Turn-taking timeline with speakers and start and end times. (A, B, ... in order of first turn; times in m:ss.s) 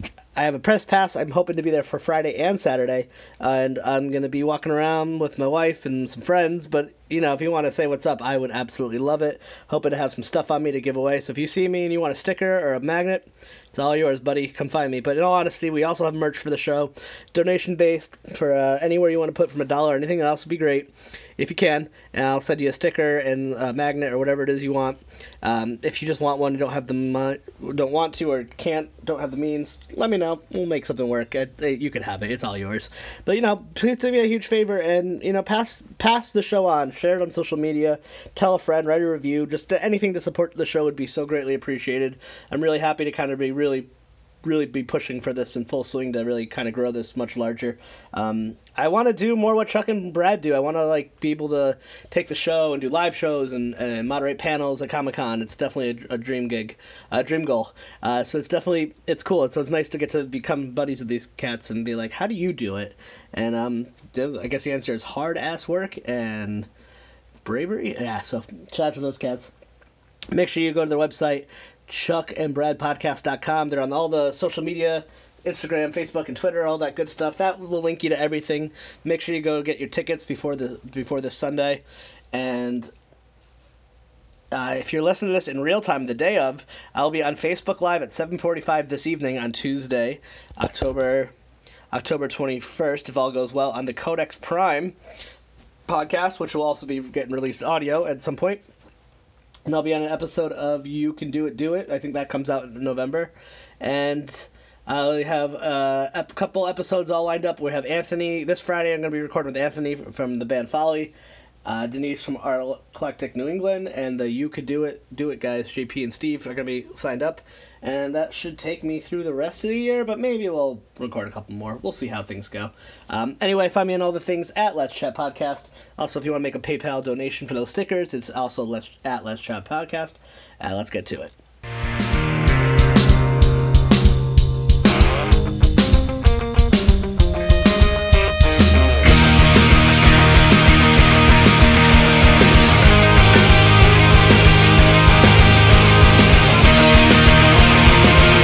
0:00.4-0:43.9 A
0:44.4-1:06.7 A
1:07.4-1:09.5 A
1:10.3-1:22.9 A
1:24.5-1:31.3 A
1:31.9-1:35.0 A
1:35.9-1:38.6 A
1:39.7-1:51.1 A
1:51.7-2:11.4 A